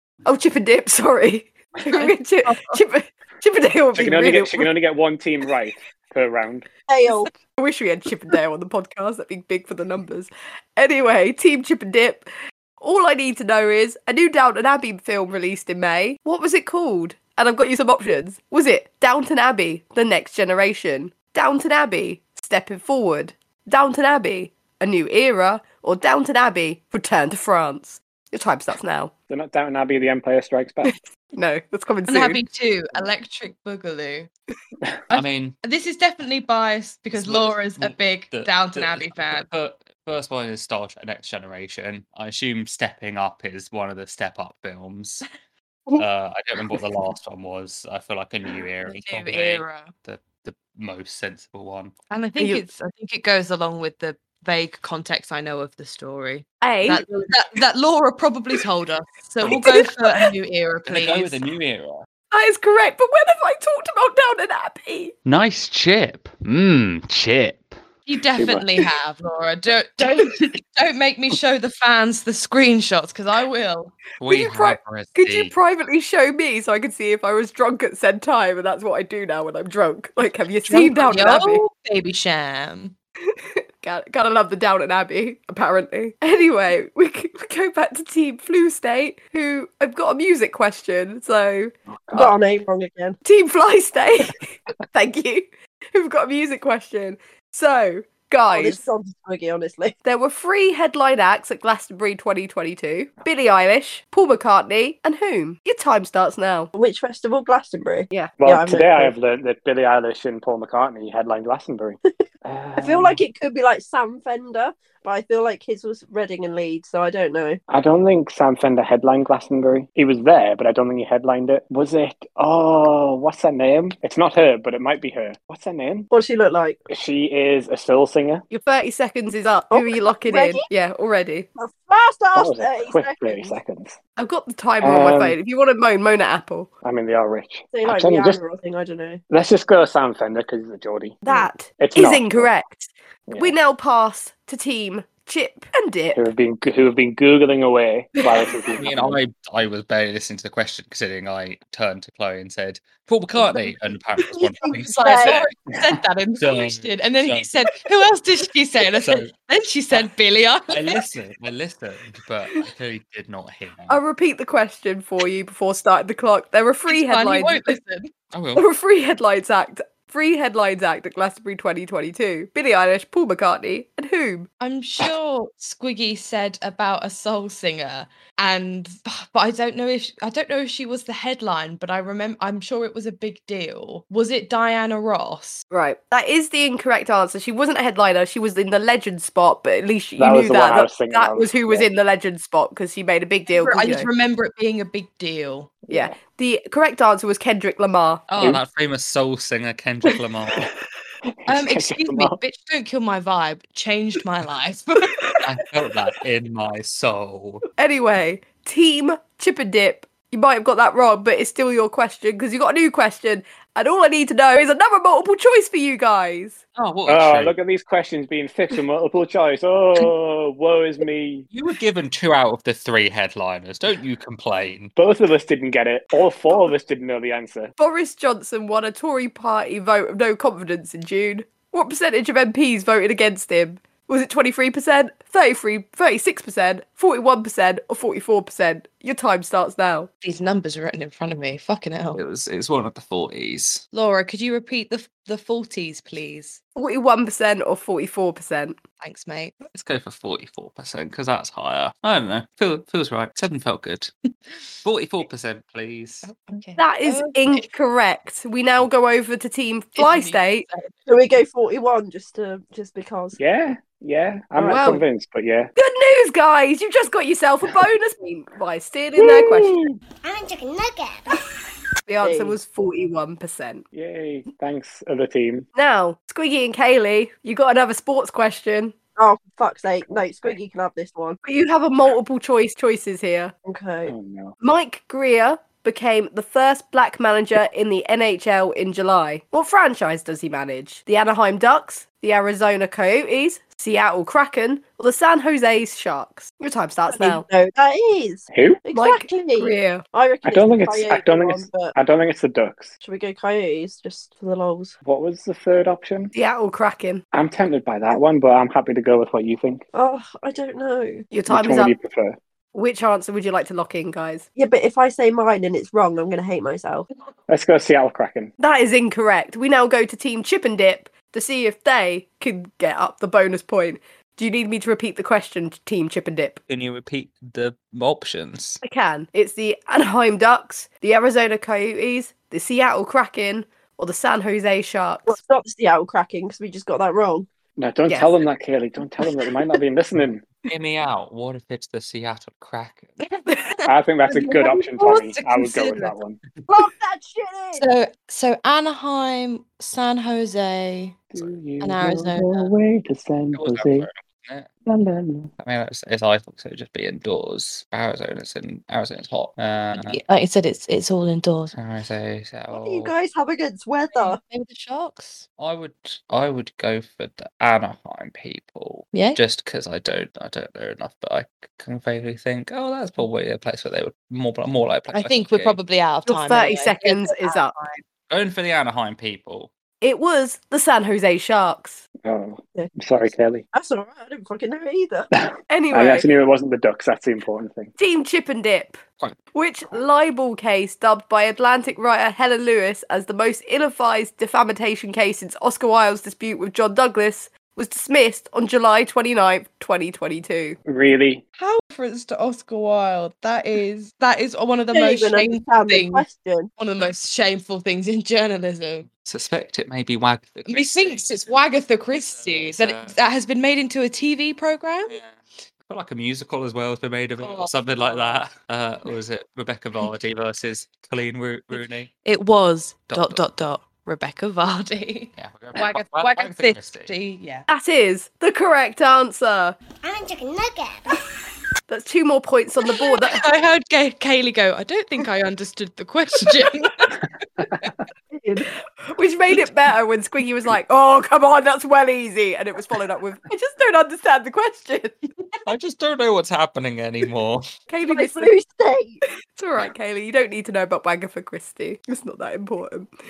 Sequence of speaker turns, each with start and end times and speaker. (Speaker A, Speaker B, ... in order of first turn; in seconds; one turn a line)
Speaker A: 0.2-4.7
Speaker B: 1.9-2.8
Speaker C: 3.9-6.7
Speaker D: 6.9-7.3
Speaker A: 7.5-12.3
Speaker A: 12.8-29.1
Speaker C: 29.3-30.9
Speaker A: 30.8-32.4
Speaker B: 32.1-34.3
Speaker B: 35.1-39.5
Speaker E: 35.1-35.6
Speaker E: 37.1-45.2
Speaker E: 46.0-51.9
Speaker B: 48.9-49.9
Speaker B: 52.1-61.4
Speaker A: 52.4-52.6
Speaker A: 56.6-57.3
Speaker A: 59.5-60.3
Speaker E: 60.9-62.0
Speaker A: 62.3-65.1
Speaker E: 65.2-67.8
Speaker B: 68.0-73.9
Speaker C: 68.3-68.7
Speaker E: 74.2-75.5
Speaker A: 74.2-81.6
Speaker B: 80.7-82.9
Speaker A: 83.3-91.7
Speaker C: 91.9-92.3
Speaker D: 92.1-93.2
Speaker A: 93.2-98.8
Speaker D: 98.5-99.9
Speaker A: 100.0-106.7
Speaker D: 106.7-109.1
Speaker C: 108.4-113.2
Speaker D: 112.8-117.6
Speaker C: 117.7-126.1
Speaker D: 126.1-126.8
Speaker C: 126.9-128.4
Speaker A: 128.5-131.5
Speaker D: 129.7-130.7
Speaker D: 131.6-133.6
Speaker C: 132.3-134.0
Speaker A: 134.2-136.7
Speaker C: 134.8-135.3
Speaker C: 136.8-138.4
Speaker D: 137.7-139.2
Speaker C: 139.3-142.5
Speaker A: 141.2-146.2
Speaker C: 143.3-143.5
Speaker C: 146.1-149.2
Speaker A: 148.2-148.5
Speaker E: 148.7-155.5
Speaker D: 154.4-155.4
Speaker B: 154.6-161.0
Speaker E: 156.4-157.5
Speaker E: 158.9-159.3
Speaker E: 160.7-164.0
Speaker A: 163.9-167.8
Speaker B: 166.9-168.1
Speaker E: 168.3-168.7
Speaker A: 168.5-174.5
Speaker B: 174.6-185.6
Speaker A: 185.7-194.1
Speaker C: 190.2-191.9
Speaker B: 193.5-195.8
Speaker C: 195.9-196.2
Speaker A: 195.9-198.3
Speaker E: 198.3-200.7
Speaker C: 201.4-202.3
Speaker B: 201.5-205.2
Speaker E: 205.4-207.6
Speaker A: 207.8-216.6
Speaker E: 216.7-217.5
Speaker C: 217.1-221.5
Speaker E: 221.5-224.9
Speaker C: 224.9-227.7
Speaker A: 227.8-240.1
Speaker B: 240.2-242.2
Speaker E: 242.2-243.8
Speaker B: 243.9-246.6
Speaker A: 246.8-248.8
Speaker B: 249.0-249.6
Speaker E: 249.7-254.1
Speaker E: 254.8-256.3
Speaker B: 256.2-257.7
Speaker A: 256.8-260.7
Speaker B: 259.9-260.9
Speaker D: 261.1-263.4
Speaker C: 263.4-265.7
Speaker A: 264.6-265.0
Speaker A: 265.7-269.8
Speaker C: 269.2-270.0
Speaker F: 270.2-271.4
Speaker A: 272.1-273.8
Speaker D: 272.2-272.6
Speaker C: 273.9-275.7
Speaker A: 275.7-278.9
Speaker D: 279.1-281.4
Speaker A: 281.4-283.5
Speaker D: 283.6-284.1
Speaker C: 284.1-284.6
Speaker A: 284.6-297.4
Speaker D: 297.1-301.9
Speaker C: 298.5-298.8
Speaker A: 298.9-300.0
Speaker C: 300.4-302.9
Speaker D: 303.0-304.9
Speaker C: 305.0-306.3
Speaker A: 306.3-307.2
Speaker C: 307.3-309.8
Speaker D: 309.9-311.2
Speaker A: 311.3-311.9
Speaker C: 311.5-312.4
Speaker A: 312.7-314.5
Speaker D: 314.6-317.1
Speaker C: 317.5-318.5
Speaker A: 318.6-326.6
Speaker E: 326.7-328.8
Speaker A: 328.8-335.4
Speaker D: 335.2-337.5
Speaker C: 337.8-340.4
Speaker A: 338.1-338.3
Speaker E: 340.7-343.1
Speaker B: 343.3-346.1
Speaker C: 343.9-346.4
Speaker D: 346.7-347.9
Speaker B: 347.7-351.2
Speaker C: 351.3-354.1
Speaker B: 351.8-352.7
Speaker E: 353.5-354.7
Speaker C: 354.9-355.5
Speaker E: 355.6-360.2
Speaker B: 359.9-361.7
Speaker E: 361.7-363.1
Speaker D: 362.7-364.4
Speaker B: 364.1-365.4
Speaker E: 365.6-375.8
Speaker B: 369.1-369.4
Speaker B: 375.1-378.0
Speaker A: 376.2-377.8
Speaker E: 378.3-379.7
Speaker A: 380.0-382.1
Speaker C: 382.2-383.6
Speaker D: 383.7-385.3
Speaker C: 385.3-387.9
Speaker A: 385.7-386.3
Speaker A: 388.0-389.0
Speaker A: 389.5-400.8
Speaker C: 400.8-401.4
Speaker B: 401.6-406.3
Speaker D: 404.9-406.7
Speaker B: 406.8-409.1
Speaker E: 409.2-411.4
Speaker B: 410.7-415.2
Speaker E: 412.1-413.2
Speaker E: 415.1-422.1
Speaker B: 417.4-418.4
Speaker B: 421.7-427.7
Speaker E: 423.1-423.4
Speaker E: 425.4-427.1
Speaker A: 427.7-429.8
Speaker F: 430.0-431.2
Speaker A: 431.9-433.4
Speaker B: 432.9-437.1
Speaker D: 438.3-438.7
Speaker A: 439.0-445.2
Speaker E: 445.6-447.6
Speaker A: 447.9-448.5
Speaker D: 448.0-449.2
Speaker A: 449.5-453.1